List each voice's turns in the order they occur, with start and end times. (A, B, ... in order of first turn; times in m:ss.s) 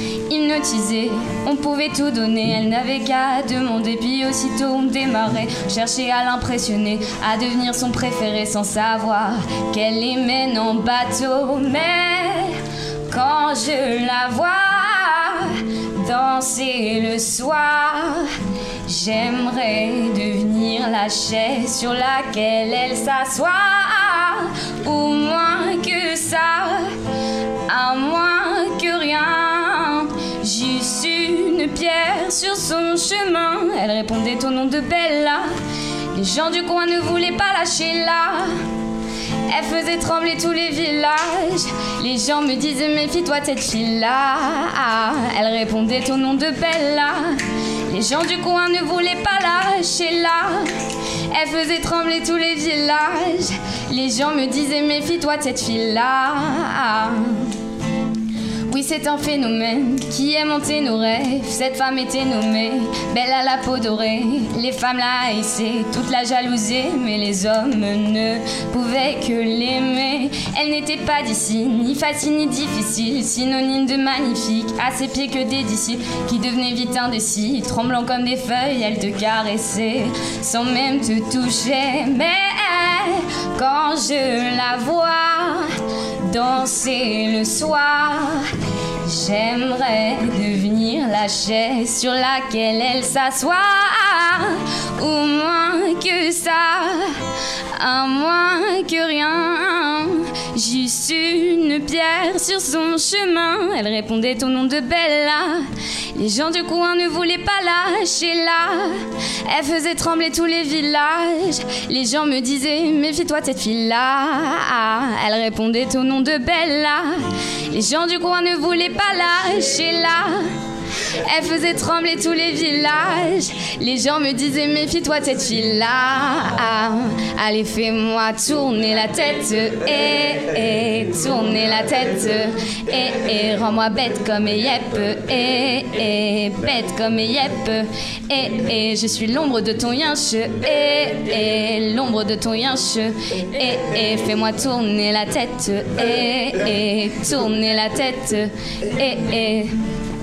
0:00.3-0:12.5 A
0:13.1-0:18.3 A
0:18.9-0:26.9 A
0:27.7-0:35.5 A
0:36.2-0:38.5 A
0:39.5-0:47.3 A
0:47.9-0:50.7 A
0:51.3-0:57.4 A
0:58.7-1:25.7 A
1:26.3-1:28.5 A
1:29.0-1:37.2 A
1:37.8-1:45.6 A
1:46.2-1:49.0 A
1:49.5-1:57.2 A
1:57.7-2:00.4 A
2:01.2-2:29.7 A